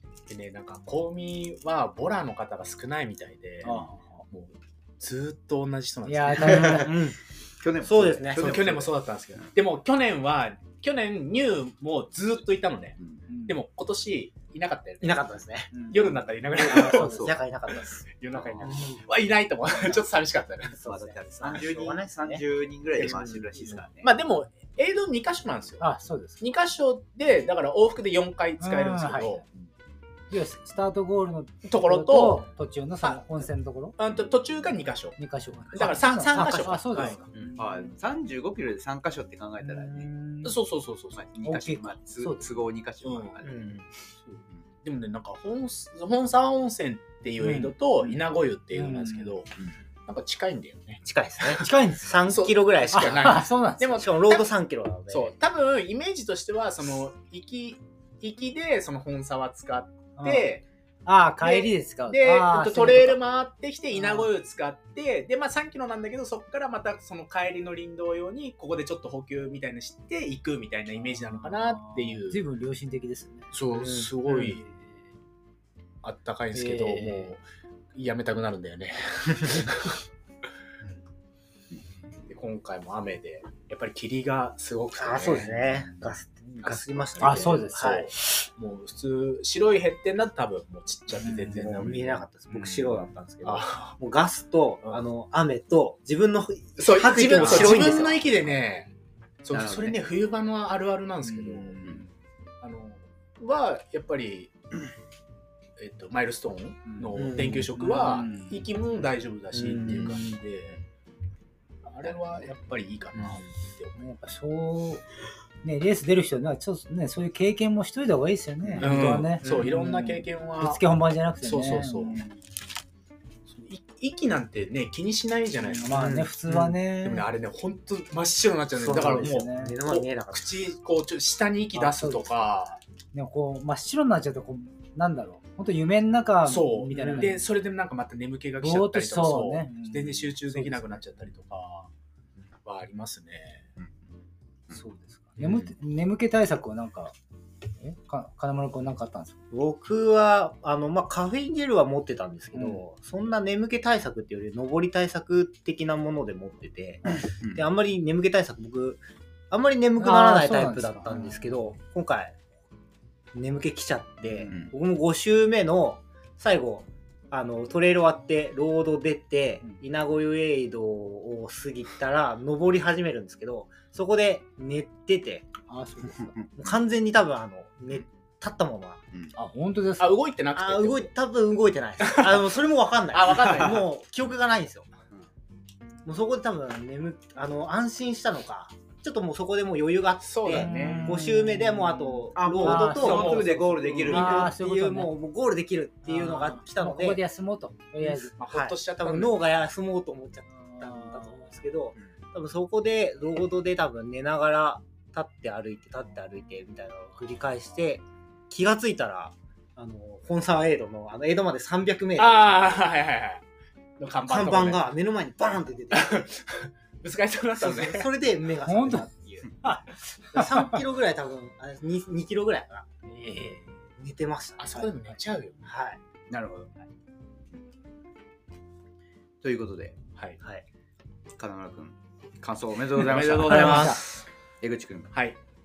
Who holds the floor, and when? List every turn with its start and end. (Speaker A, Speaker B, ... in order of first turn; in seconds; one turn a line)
Speaker A: 0.3-6.9
Speaker B: 3.6-4.2
Speaker B: 6.0-7.0
Speaker C: 6.6-7.2
Speaker D: 7.6-8.9
Speaker C: 7.8-8.8
Speaker A: 8.3-20.8
Speaker B: 13.3-13.6
Speaker C: 15.0-15.8
Speaker B: 15.7-16.1
Speaker B: 16.6-17.4
Speaker C: 16.6-18.0
Speaker C: 18.6-19.0
Speaker C: 20.8-22.4
Speaker D: 20.8-24.1
Speaker C: 23.0-23.8
Speaker A: 23.0-23.3
Speaker A: 24.0-25.8
Speaker B: 25.8-26.4
Speaker A: 26.4-29.4
Speaker B: 28.6-29.4
Speaker B: 30.3-33.9
Speaker A: 31.6-32.5
Speaker A: 34.0-35.2
Speaker B: 35.2-37.6
Speaker A: 35.7-37.2
Speaker C: 36.3-37.6
Speaker D: 37.6-40.1
Speaker B: 39.6-40.5
Speaker A: 40.4-41.2
Speaker D: 41.1-43.7
Speaker B: 41.4-42.4
Speaker A: 43.0-43.4
Speaker C: 43.4-43.9
Speaker A: 44.2-49.5
Speaker B: 47.4-47.7
Speaker B: 48.7-49.4
Speaker A: 50.1-51.7
Speaker C: 51.0-53.3
Speaker B: 51.6-52.1
Speaker A: 52.2-54.5
Speaker B: 52.9-54.0
Speaker C: 54.0-55.3
Speaker A: 55.1-60.6
Speaker B: 60.2-60.5
Speaker B: 61.0-63.2
Speaker A: 61.4-72.4
Speaker B: 63.9-64.3
Speaker B: 71.0-73.5
Speaker A: 73.5-74.6
Speaker C: 73.7-74.5
Speaker B: 74.3-74.7
Speaker A: 76.0-77.4
Speaker B: 76.5-77.3
Speaker A: 77.9-80.0
Speaker A: 82.3-85.9
Speaker C: 85.0-88.1
Speaker A: 86.6-94.0
Speaker B: 87.2-88.1
Speaker B: 91.2-91.7
Speaker C: 91.5-98.3
Speaker A: 96.8-98.9
Speaker D: 97.4-98.2
Speaker A: 99.4-101.9
Speaker D: 99.5-100.0
Speaker B: 101.7-102.1
Speaker A: 102.6-104.5
Speaker A: 105.8-110.8
Speaker B: 106.9-108.6
Speaker C: 107.1-107.9
Speaker C: 109.5-110.3
Speaker A: 111.8-114.0
Speaker C: 113.1-113.4
Speaker B: 114.0-115.0
Speaker B: 115.6-122.4
Speaker C: 118.6-119.7
Speaker A: 118.8-120.8
Speaker A: 121.4-122.2
Speaker A: 123.5-132.8
Speaker B: 125.6-127.3
Speaker C: 125.9-126.3
Speaker C: 128.8-130.7
Speaker B: 128.8-129.8
Speaker B: 131.7-137.4
Speaker A: 136.4-141.9
Speaker C: 136.9-137.3
Speaker B: 138.6-141.0
Speaker A: 142.6-143.6
Speaker B: 144.7-147.1
Speaker B: 147.8-149.3
Speaker C: 149.5-162.4
Speaker B: 152.5-152.8
Speaker D: 157.3-157.6
Speaker B: 160.0-161.6
Speaker C: 163.3-175.5
Speaker B: 175.7-176.3
Speaker C: 176.5-179.0
Speaker B: 179.3-180.1
Speaker A: 180.0-181.1
Speaker C: 180.6-184.9
Speaker A: 182.0-182.5
Speaker A: 183.1-183.9
Speaker C: 186.0-197.2
Speaker A: 190.2-191.2
Speaker B: 190.5-193.3
Speaker D: 192.3-194.6
Speaker A: 192.8-194.4
Speaker B: 194.1-195.1
Speaker B: 196.1-198.3
Speaker A: 198.4-199.3
Speaker C: 198.5-212.7
Speaker B: 200.6-201.5
Speaker A: 212.2-213.4
Speaker A: 214.0-214.9
Speaker C: 214.3-216.3
Speaker A: 215.9-218.1
Speaker C: 217.6-222.8
Speaker B: 218.7-219.1
Speaker B: 220.3-220.8
Speaker B: 223.1-223.7
Speaker C: 224.0-224.9
Speaker A: 224.6-225.6
Speaker C: 225.6-226.0
Speaker D: 226.3-226.7
Speaker D: 229.4-230.0
Speaker D: 231.3-234.0
Speaker A: 233.0-234.1
Speaker B: 233.5-234.0
Speaker D: 234.6-235.1
Speaker A: 235.1-235.4